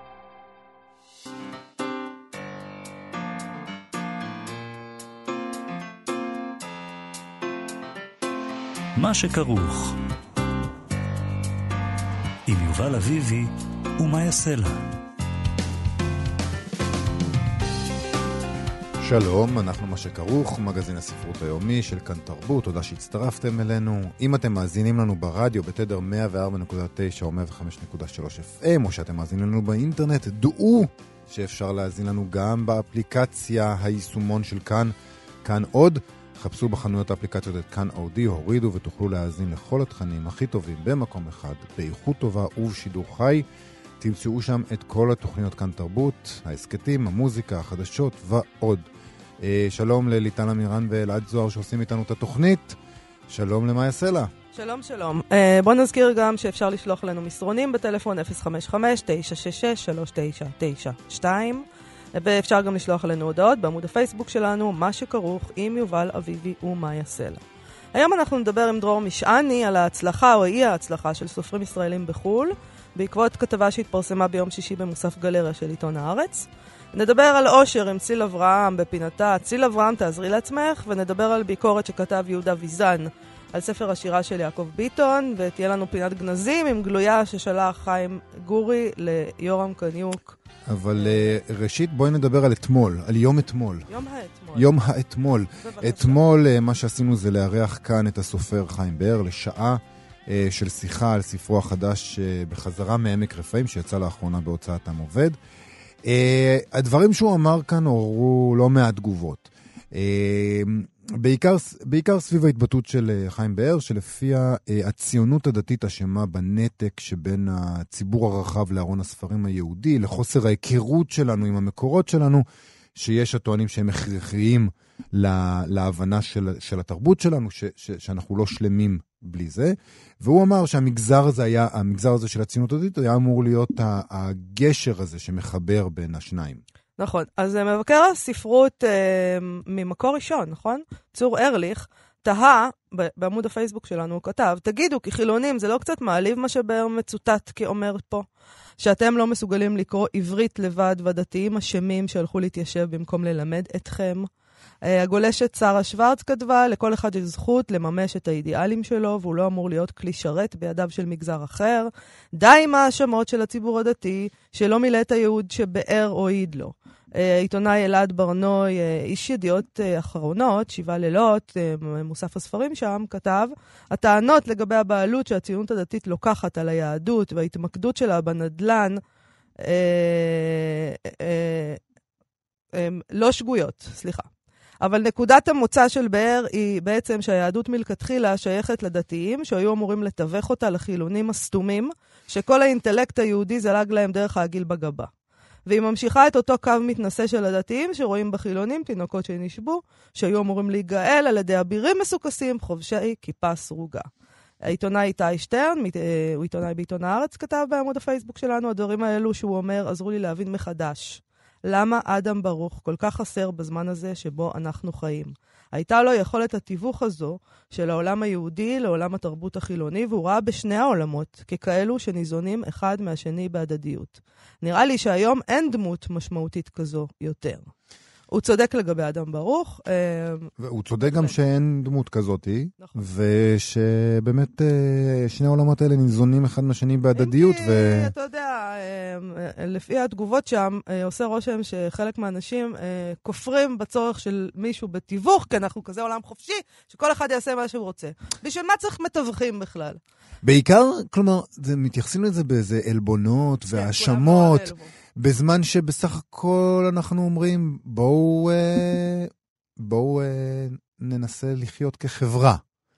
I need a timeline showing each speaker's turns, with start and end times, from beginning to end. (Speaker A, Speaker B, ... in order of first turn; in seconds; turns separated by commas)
Speaker A: 9.0-10.0, Speaker A: 12.5-14.8, Speaker B: 19.0-43.5, Speaker B: 44.0-48.9, Speaker B: 49.4-52.8, Speaker B: 53.3-54.3, Speaker C: 54.5-67.4, Speaker C: 67.9-90.4, Speaker B: 90.7-93.9, Speaker C: 93.9-94.7, Speaker B: 94.5-105.4, Speaker C: 95.6-96.2, Speaker B: 106.0-122.4, Speaker B: 123.0-136.6, Speaker C: 137.0-148.3, Speaker C: 148.8-154.3, Speaker C: 154.8-179.0, Speaker C: 179.6-181.8, Speaker C: 182.7-184.3, Speaker C: 184.8-195.1, Speaker C: 195.7-204.1, Speaker C: 204.6-227.7, Speaker C: 228.3-230.5, Speaker B: 230.6-238.1, Speaker C: 231.1-231.3, Speaker C: 237.2-250.0, Speaker B: 250.4-262.6, Speaker C: 253.7-254.9